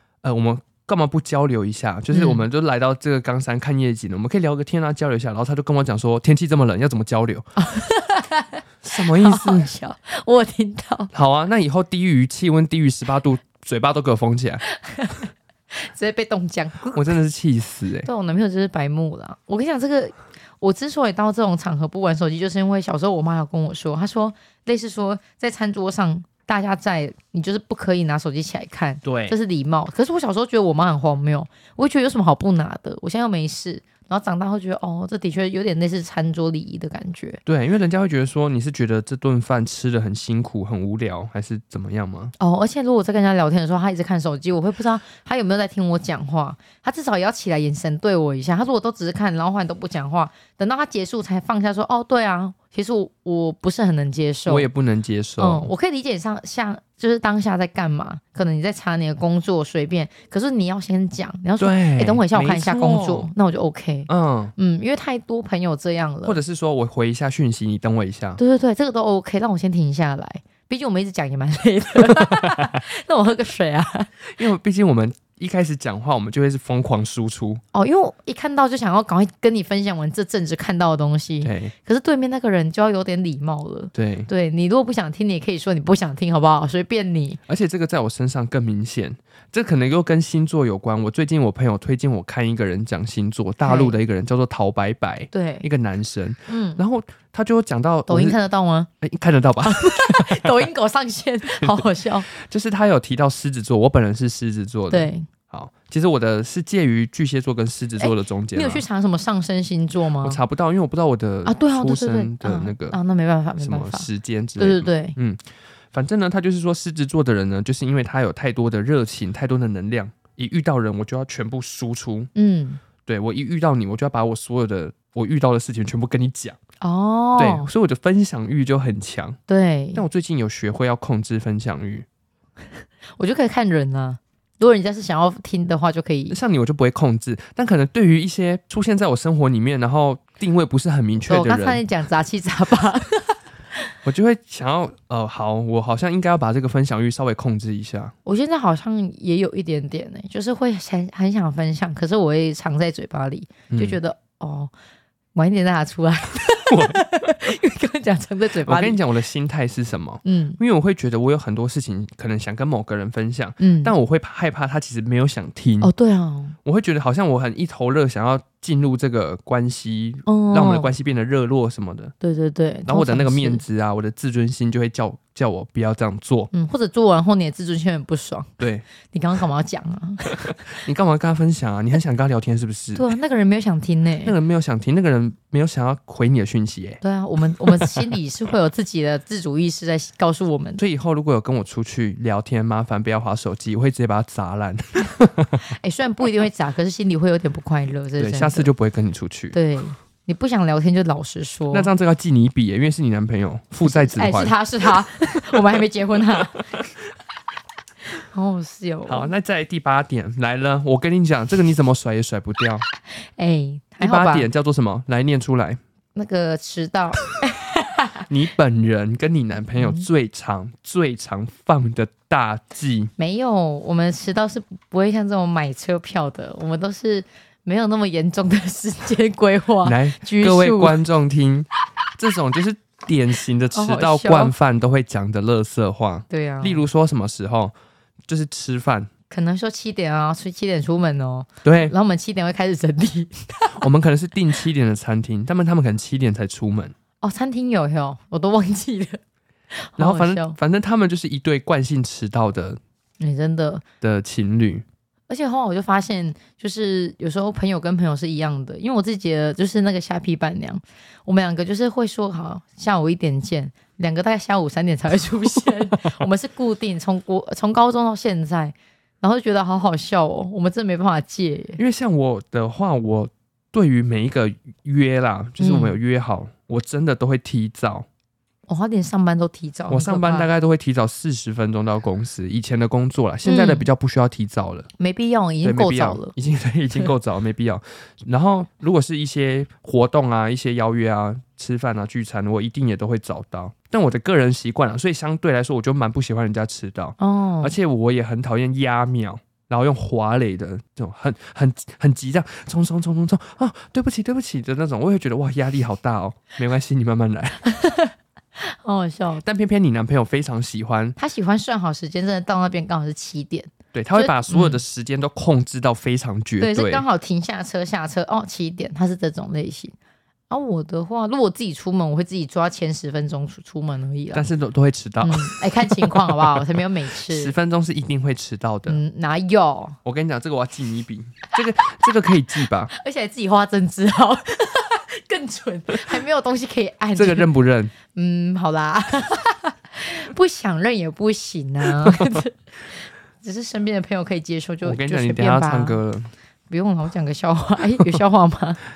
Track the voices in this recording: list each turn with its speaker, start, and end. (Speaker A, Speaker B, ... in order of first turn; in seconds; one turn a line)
Speaker A: 0.2-7.5
Speaker B: 2.1-2.4
Speaker B: 7.6-11.1
Speaker A: 8.8-9.7
Speaker A: 11.1-14.6
Speaker B: 14.7-17.1
Speaker A: 16.9-18.1
Speaker B: 18.1-37.4
Speaker A: 29.0-29.4
Speaker A: 37.5-42.3
Speaker B: 42.4-54.7
Speaker A: 54.5-55.7
Speaker B: 55.4-66.4
Speaker A: 61.6-63.3
Speaker A: 64.1-64.5
Speaker A: 66.2-68.4
Speaker B: 68.4-74.1
Speaker A: 72.1-72.8
Speaker A: 74.2-77.6
Speaker B: 77.7-87.4
Speaker A: 81.4-81.7
Speaker A: 83.9-84.3
Speaker A: 87.5-98.4
Speaker B: 93.6-94.0
Speaker B: 95.3-95.7
Speaker B: 96.5-96.8
Speaker B: 98.1-98.9
Speaker A: 99.0-100.6
Speaker B: 99.6-102.3
Speaker A: 101.6-108.8
Speaker B: 104.9-105.3
Speaker B: 108.0-110.4
Speaker A: 110.2-113.0
Speaker B: 111.4-115.2
Speaker A: 113.6-115.4
Speaker A: 115.9-122.3
Speaker B: 122.3-122.8
Speaker A: 123.0-126.6
Speaker B: 126.8-127.7
Speaker A: 127.4-129.4
Speaker B: 129.5-130.0
Speaker A: 129.9-132.1
Speaker B: 133.2-136.4
Speaker A: 136.3-141.8
Speaker B: 141.3-143.9
Speaker A: 144.0-148.1
Speaker B: 148.2-154.7
Speaker A: 153.7-154.0
Speaker B: 155.3-159.0
Speaker A: 156.7-157.1
Speaker A: 158.6-165.9
Speaker B: 160.2-160.6
Speaker B: 163.6-163.9
Speaker B: 165.8-166.6
Speaker A: 166.6-172.1
Speaker B: 170.3-170.9
Speaker B: 172.2-173.6
Speaker A: 172.9-176.5
Speaker B: 176.5-180.6
Speaker A: 178.6-178.9
Speaker A: 180.4-183.1
Speaker B: 182.9-184.3
Speaker A: 184.2-187.0
Speaker B: 187.0-190.8
Speaker A: 187.7-188.1
Speaker A: 190.8-195.7
Speaker B: 195.7-198.7
Speaker A: 198.2-199.6
Speaker B: 199.5-201.9
Speaker A: 201.7-204.6
Speaker B: 203.8-206.7
Speaker B: 208.1-209.3
Speaker A: 209.1-212.8
Speaker B: 213.2-214.5
Speaker A: 214.0-215.8
Speaker B: 216.1-218.3
Speaker A: 218.3-223.1
Speaker B: 219.8-220.1
Speaker B: 223.2-231.0
Speaker A: 229.8-237.7
Speaker B: 233.7-234.5
Speaker B: 236.3-236.8
Speaker A: 238.3-239.1
Speaker B: 239.3-243.9
Speaker A: 241.6-241.9
Speaker A: 243.8-246.9
Speaker B: 247.2-249.2
Speaker B: 249.7-250.6
Speaker A: 250.0-252.8
Speaker B: 253.2-253.8
Speaker A: 254.0-254.8
Speaker B: 255.3-271.8
Speaker A: 271.8-278.1
Speaker B: 275.6-276.0
Speaker B: 278.7-280.5
Speaker A: 279.9-284.9
Speaker B: 283.4-283.9
Speaker B: 285.0-286.3
Speaker A: 285.6-307.7
Speaker B: 297.2-297.7
Speaker B: 307.6-309.4
Speaker A: 309.4-311.2
Speaker B: 311.2-314.8
Speaker A: 313.9-317.0
Speaker B: 316.6-319.9
Speaker B: 320.5-324.4
Speaker A: 324.3-326.7
Speaker B: 325.2-327.5
Speaker A: 327.3-329.0
Speaker B: 328.9-330.0
Speaker A: 330.0-332.9
Speaker B: 332.9-337.5
Speaker A: 337.1-337.9
Speaker B: 338.0-346.0
Speaker A: 342.0-342.4
Speaker A: 344.8-346.3
Speaker B: 346.7-348.8